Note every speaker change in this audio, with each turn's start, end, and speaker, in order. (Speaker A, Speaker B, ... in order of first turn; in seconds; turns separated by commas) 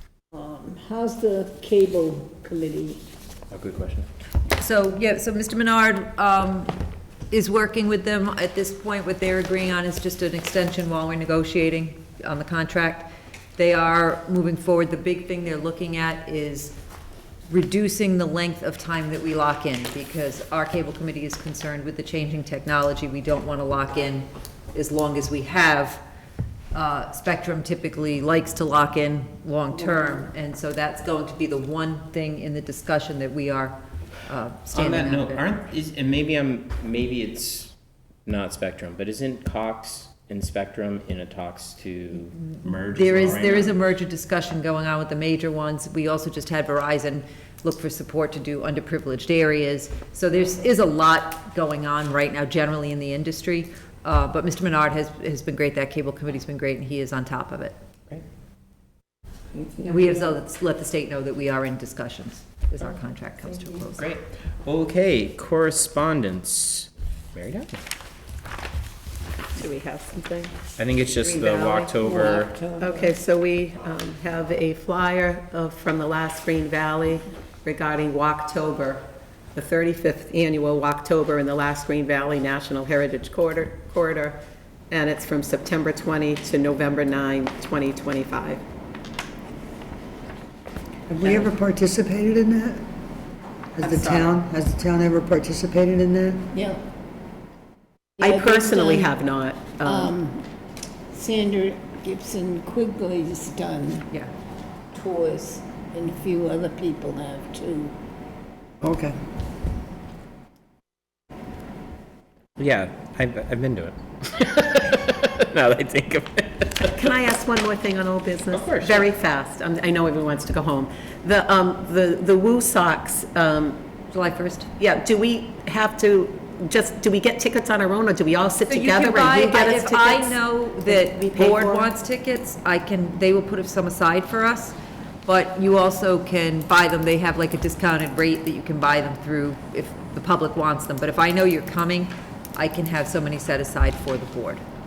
Speaker A: 0.3-3.0, Speaker B: 3.5-4.1, Speaker C: 4.6-16.8, Speaker C: 17.5-26.0, Speaker C: 26.7-35.5, Speaker B: 34.7-37.8, Speaker B: 38.3-43.8, Speaker C: 42.6-57.8, Speaker D: 59.5-59.9, Speaker C: 59.8-64.1, Speaker B: 64.0-67.8, Speaker D: 69.5-70.6, Speaker B: 70.8-72.6, Speaker A: 71.1-73.2, Speaker D: 72.8-79.0, Speaker D: 79.5-84.4, Speaker D: 84.9-88.6, Speaker E: 91.1-92.8, Speaker E: 93.8-96.5, Speaker D: 93.8-94.3, Speaker A: 96.5-96.8, Speaker A: 98.2-99.1, Speaker D: 98.2-100.1, Speaker A: 99.8-100.5, Speaker A: 101.1-104.2, Speaker A: 104.9-108.0, Speaker E: 108.8-109.2, Speaker B: 112.6-117.2, Speaker D: 116.9-123.8, Speaker B: 118.5-119.1, Speaker C: 124.1-124.7, Speaker D: 124.8-131.9, Speaker C: 128.7-144.6